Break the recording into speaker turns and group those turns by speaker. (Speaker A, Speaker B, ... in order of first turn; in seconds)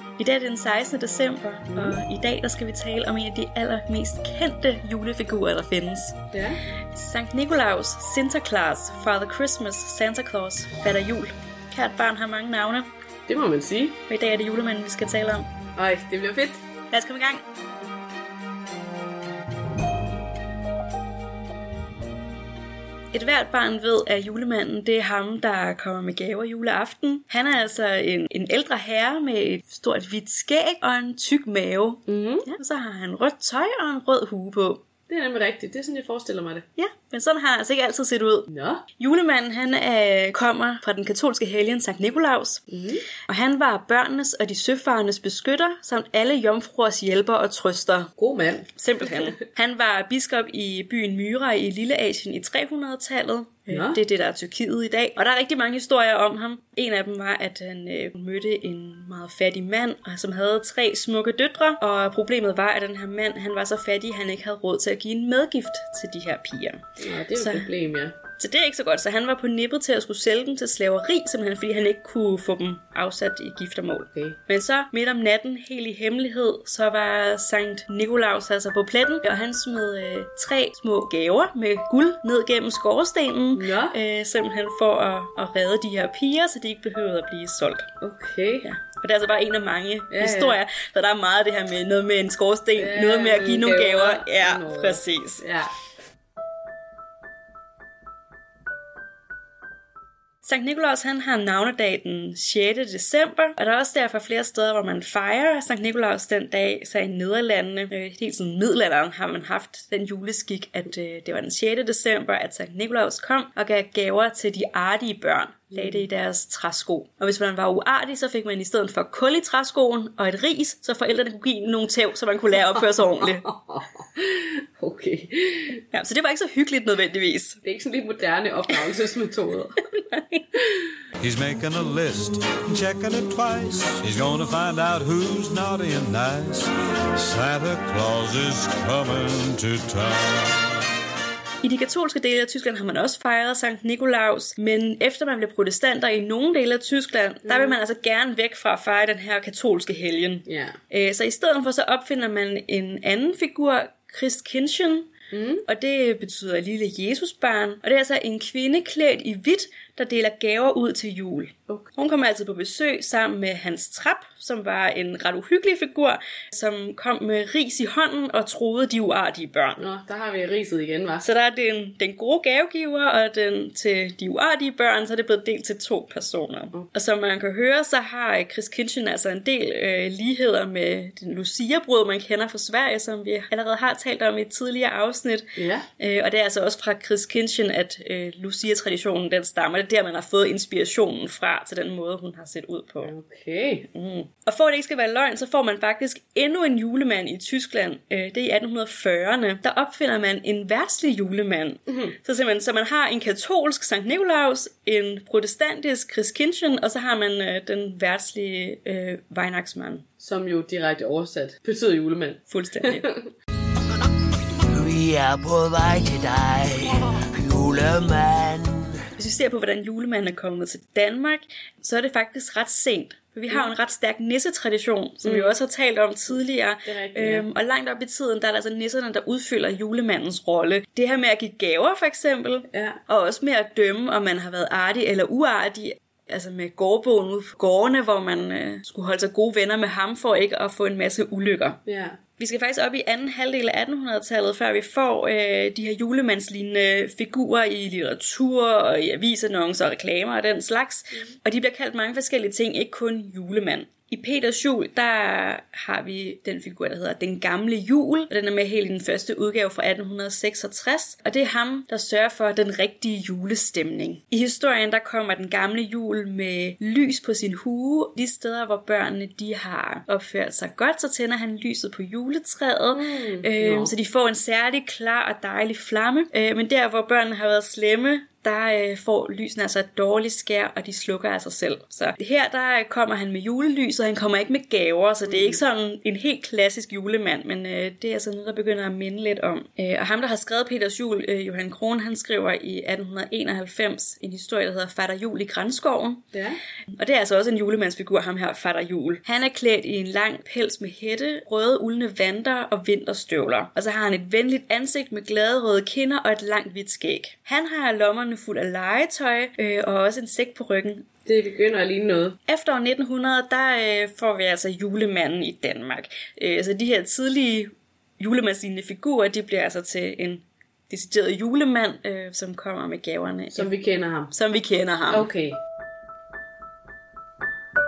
Speaker A: 0.2-6.2, 6.9-12.9, 14.1-15.5, 16.9-17.4, 23.1-34.8, 36.8-42.7, 43.2-48.1, 48.8-66.8, 67.3-67.7, 68.3-87.9, 88.6-95.4, 100.4-123.5, 125.9-127.6, 129.9-130.4, 141.6-155.1, 155.7-169.8, 171.2-185.4, 186.0-193.1, 193.9-210.1, 212.5-213.1, 219.1-241.8, 242.3-296.2, 296.9-311.1, 312.4-323.7, 324.3-325.3
Speaker B: 1.7-2.0, 6.3-6.6, 13.3-14.0, 15.7-16.6, 32.1-32.5, 35.1-36.6, 38.5-38.9, 42.7-43.1, 48.2-48.7, 53.7-54.0, 67.0-68.2, 83.5-84.0, 88.0-88.7, 90.1-90.6, 92.8-95.7, 123.2-125.8, 127.6-129.8, 130.6-130.9, 147.5-147.7, 150.4-150.8, 155.3-155.6, 169.8-171.2, 185.6-185.9, 193.0-193.9, 210.2-212.4, 213.0-213.3, 225.2-225.5, 226.8-227.5, 232.7-233.0, 241.8-242.2, 272.9-273.9, 296.3-296.6, 311.2-312.4, 323.5-324.3, 325.1-325.6
Speaker C: 131.2-140.8
Speaker D: 214.7-216.6, 217.3-217.9